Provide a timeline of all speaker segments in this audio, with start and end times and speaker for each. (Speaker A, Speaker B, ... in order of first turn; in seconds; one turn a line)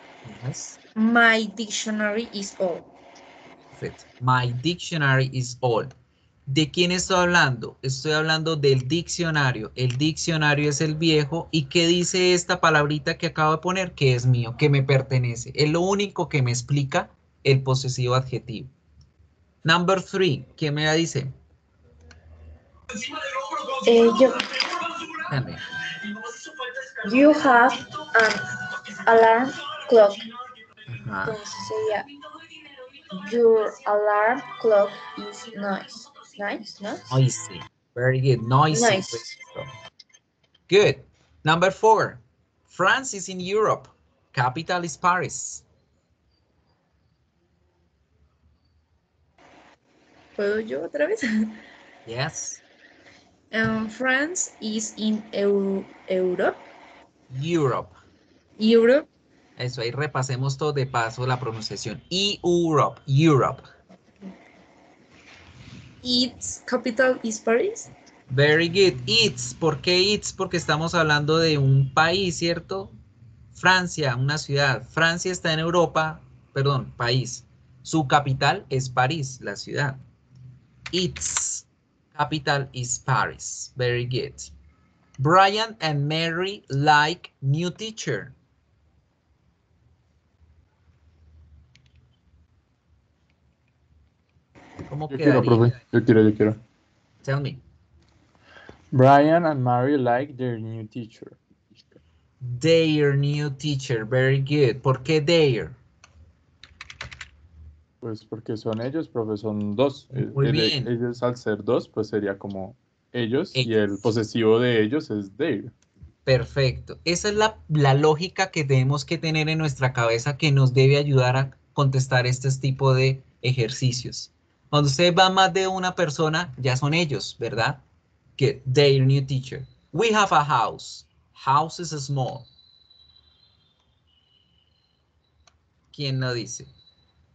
Speaker A: 0.2-0.8
Speaker B: 0.9-2.9
Speaker A: 3.8-5.9
Speaker A: 6.5-18.7
Speaker A: 19.6-21.3
Speaker B: 23.9-24.3
Speaker A: 25.3-25.6
Speaker B: 27.0-28.5
Speaker B: 29.0-30.2
Speaker A: 30.9-31.4
Speaker B: 31.2-32.1
Speaker B: 33.1-37.1
Speaker A: 37.1-39.7
Speaker A: 40.7-45.6
Speaker B: 50.4-51.6
Speaker A: 52.0-52.6
Speaker B: 53.5-56.6
Speaker A: 57.3-57.9
Speaker B: 58.6-59.1
Speaker A: 59.6-63.7
Speaker B: 66.0-67.9
Speaker A: 68.3-72.9
Speaker A: 73.5-80.0
Speaker A: 80.9-84.5
Speaker A: 85.2-88.3
Speaker A: 94.9-95.8
Speaker C: 95.1-96.6
Speaker A: 97.2-97.6
Speaker C: 98.9-102.0
Speaker A: 102.4-105.8
Speaker C: 108.0-115.7
Speaker A: 110.1-110.9
Speaker A: 116.2-127.8
Speaker A: 128.4-132.5
Speaker A: 135.9-136.7